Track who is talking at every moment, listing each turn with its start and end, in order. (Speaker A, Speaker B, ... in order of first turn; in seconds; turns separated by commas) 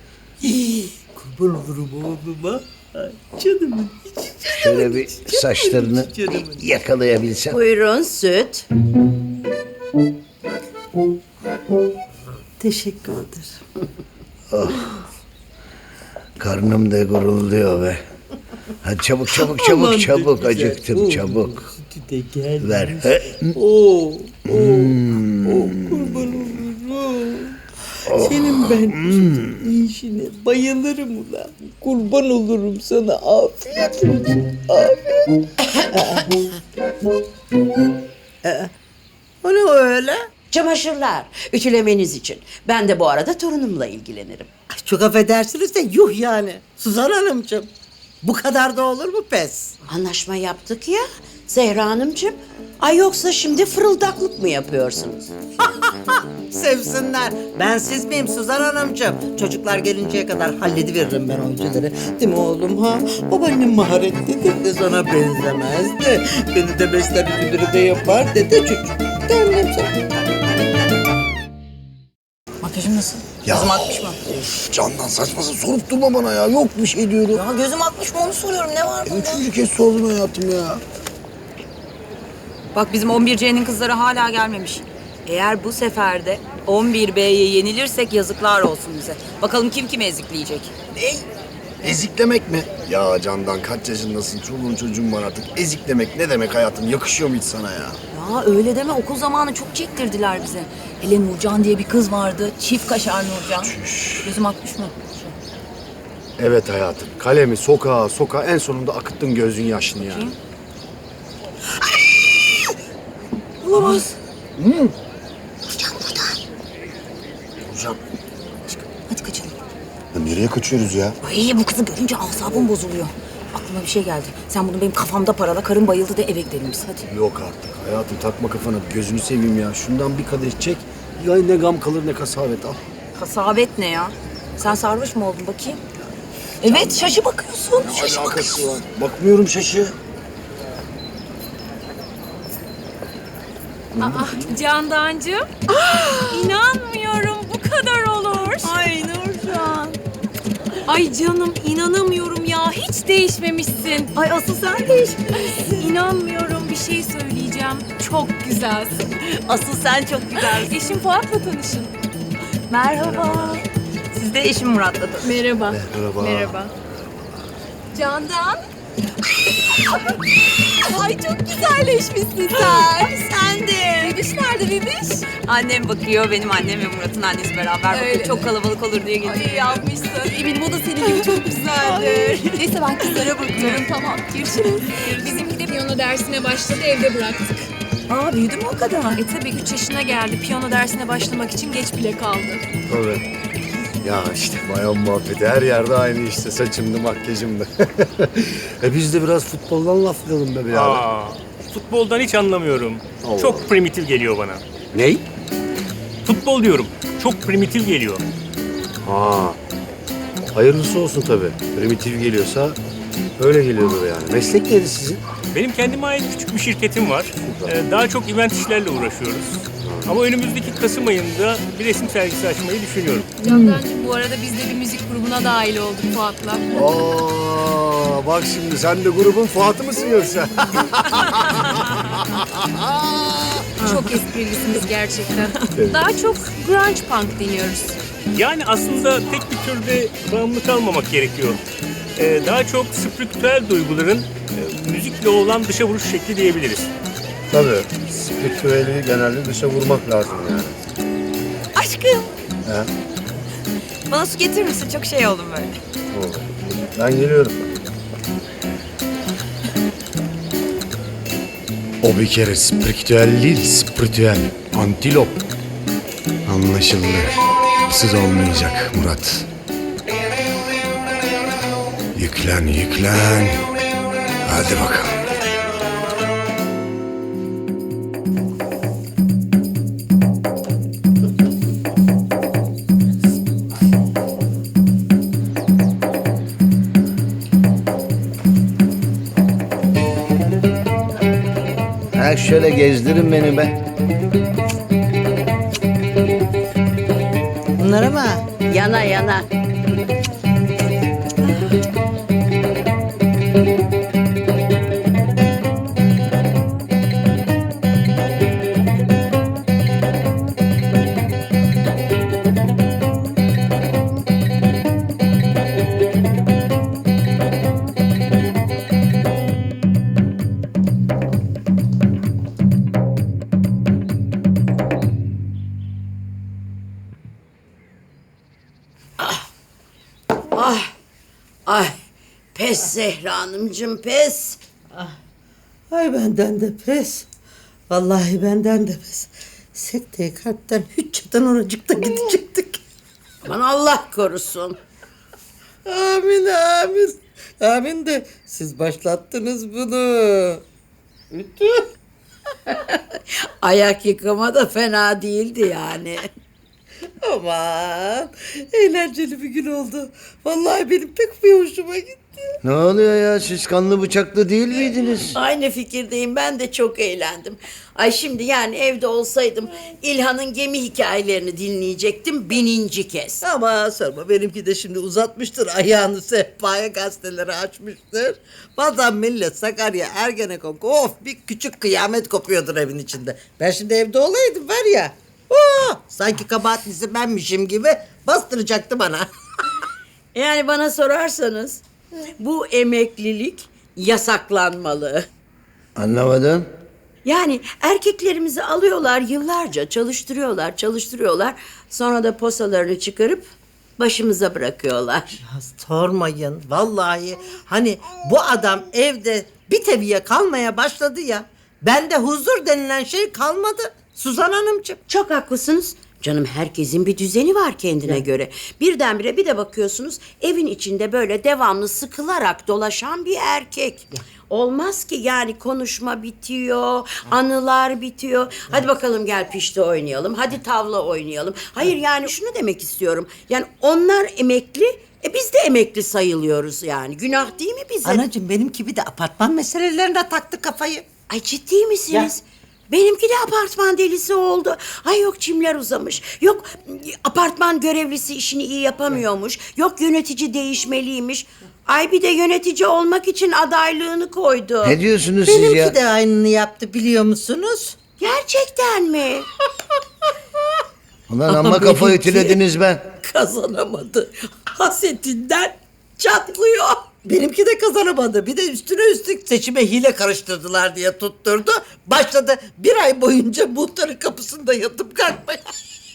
Speaker A: 0.4-6.7, Speaker B: 4.5-7.6, Speaker C: 7.5-8.7, Speaker A: 12.6-13.6, Speaker B: 14.5-14.9, Speaker B: 16.4-18.0, Speaker B: 18.8-21.7, Speaker A: 19.3-36.6, Speaker B: 22.6-23.5, Speaker B: 24.5-26.4, Speaker B: 28.1-29.6, Speaker A: 38.4-38.7, Speaker A: 39.4-40.3, Speaker C: 40.5-44.5, Speaker A: 44.7-47.7, Speaker A: 48.2-49.8, Speaker C: 49.9-55.3, Speaker A: 55.6-69.9, Speaker D: 72.6-74.4, Speaker E: 73.5-77.4, Speaker D: 77.3-79.5, Speaker E: 79.1-80.8, Speaker D: 82.7-90.7, Speaker E: 91.8-98.0, Speaker D: 98.1-105.4, Speaker E: 103.6-104.3, Speaker E: 106.4-110.4, Speaker D: 110.0-110.3, Speaker D: 113.6-114.2, Speaker E: 113.7-114.0, Speaker E: 114.6-114.9, Speaker D: 115.7-116.4, Speaker E: 117.7-118.0, Speaker D: 118.6-119.6, Speaker E: 120.1-121.2, Speaker D: 121.2-127.1, Speaker E: 127.1-132.8, Speaker D: 133.2-135.8, Speaker D: 136.6-138.7, Speaker E: 136.7-137.1, Speaker E: 137.8-139.9, Speaker F: 144.0-145.5, Speaker D: 145.7-146.5, Speaker F: 146.3-148.7, Speaker D: 148.6-150.0, Speaker F: 150.9-154.1, Speaker D: 154.1-155.3, Speaker F: 155.4-159.1, Speaker D: 159.2-160.8, Speaker F: 160.3-161.9, Speaker D: 162.7-165.3, Speaker E: 163.0-163.6, Speaker F: 165.2-166.7, Speaker E: 165.7-167.5, Speaker F: 167.9-168.6, Speaker F: 170.8-173.2, Speaker D: 172.5-174.2, Speaker F: 174.0-175.2, Speaker D: 175.3-179.9, Speaker F: 177.9-178.5, Speaker F: 179.2-187.6, Speaker D: 181.0-185.4, Speaker D: 188.1-189.2, Speaker F: 189.2-192.6, Speaker E: 192.9-193.2, Speaker E: 194.0-201.1, Speaker G: 200.7-204.6, Speaker E: 203.2-203.7, Speaker E: 204.9-205.3, Speaker G: 206.2-208.2, Speaker E: 209.0-209.6, Speaker E: 210.5-212.8, Speaker E: 213.4-215.2, Speaker G: 215.5-223.3, Speaker E: 217.4-217.7, Speaker E: 219.8-220.1, Speaker F: 223.4-226.7, Speaker D: 223.5-223.8, Speaker E: 226.7-234.1, Speaker F: 233.8-238.0, Speaker E: 235.7-236.1, Speaker G: 238.3-241.6, Speaker G: 242.2-246.9, Speaker E: 247.5-250.8, Speaker D: 251.8-252.3, Speaker E: 252.7-252.9, Speaker D: 254.1-255.8, Speaker E: 256.1-257.7, Speaker E: 262.0-265.4, Speaker E: 266.5-267.4, Speaker E: 267.9-269.5, Speaker E: 272.1-273.7, Speaker E: 274.4-275.2, Speaker B: 292.1-293.8, Speaker A: 297.8-298.5, Speaker C: 298.7-299.5, Speaker C: 330.5-330.9, Speaker C: 331.7-331.9, Speaker C: 332.6-334.6, Speaker A: 335.9-337.3, Speaker A: 337.9-342.8, Speaker C: 343.4-344.8, Speaker A: 345.9-350.6, Speaker A: 351.3-351.8, Speaker C: 352.7-356.3, Speaker A: 357.2-362.6, Speaker B: 362.6-365.3, Speaker C: 365.3-373.4, Speaker A: 373.4-389.3, Speaker C: 390.3-391.8, Speaker C: 392.4-395.3, Speaker B: 396.0-396.7, Speaker C: 397.2-405.4, Speaker A: 405.4-415.0, Speaker C: 415.1-438.2, Speaker A: 438.0-441.1, Speaker C: 441.3-455.0, Speaker B: 454.8-455.9, Speaker A: 455.5-458.0, Speaker C: 458.2-459.5, Speaker B: 461.3-463.0, Speaker C: 461.5-467.1, Speaker A: 461.6-461.9, Speaker A: 467.2-475.7